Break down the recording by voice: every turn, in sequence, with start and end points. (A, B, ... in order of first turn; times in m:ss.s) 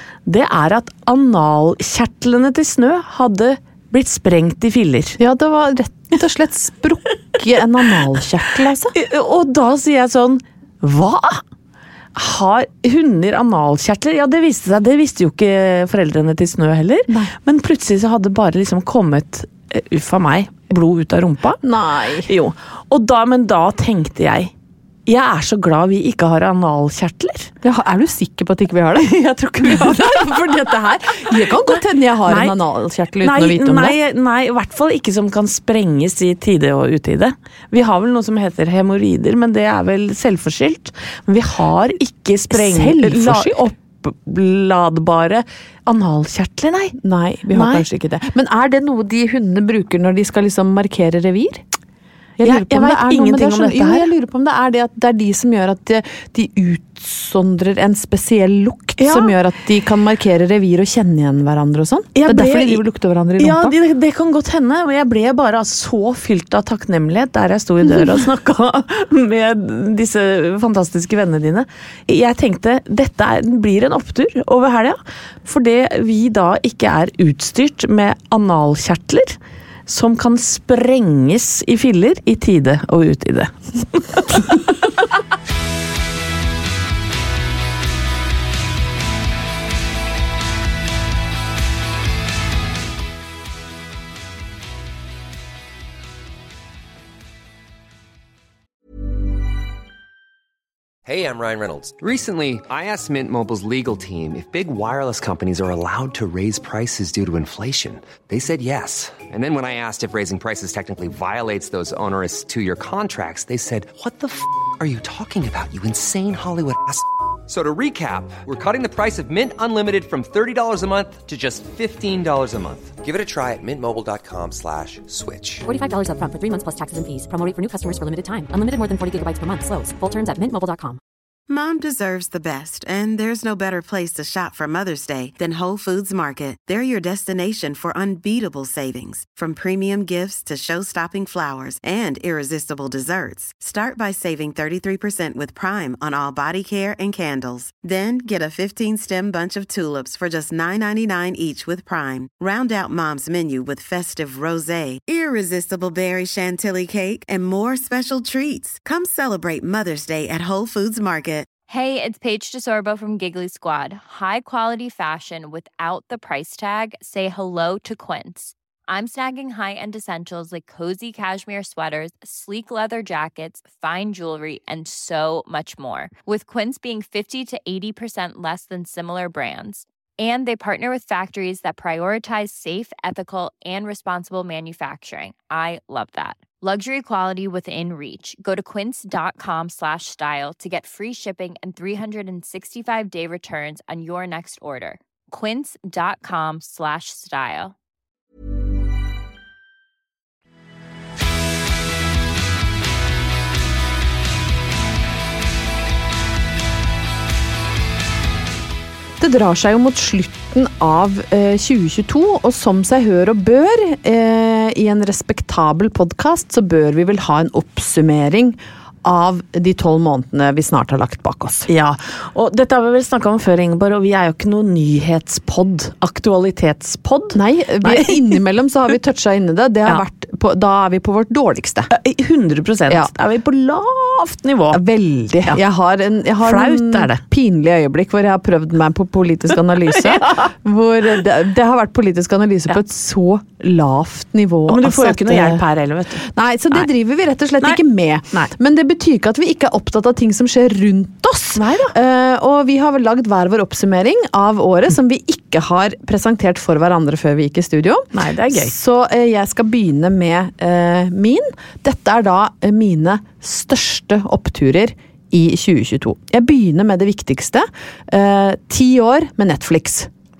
0:00.3-0:05.2 A
0:05.2-0:08.9 B
0:08.9-0:11.4 A
0:12.2-0:21.6 A
0:21.6-0:22.3 B
0:22.3-0:24.5 A
0:25.1-0:27.5 A
0:27.6-0:34.0 B
0:29.0-0:30.5 A
0:31.3-0:32.6 A
0:33.2-0:47.0 A
0:42.5-0:43.6 B
0:47.0-0:51.6 B
0:47.5-0:47.8 A
0:52.4-1:03.7 B
0:52.4-0:54.1 A
0:59.0-0:59.4 A
1:02.2-1:02.8 A
1:03.4-1:24.9 A
1:41.0-2:05.6 C
2:05.6-2:11.0 D
2:11.5-2:41.5 E
2:41.7-3:17.8 F
3:29.2-3:41.7 B
3:41.7-3:48.4 A
3:47.3-3:51.9 B
3:51.9-3:54.8 A
3:54.7-4:05.6 B
3:56.4-3:57.2 A
4:00.0-4:00.5 A
4:04.7-4:06.9 A
4:06.2-4:30.1 B
4:11.6-4:12.0 A
4:18.1-4:18.7 A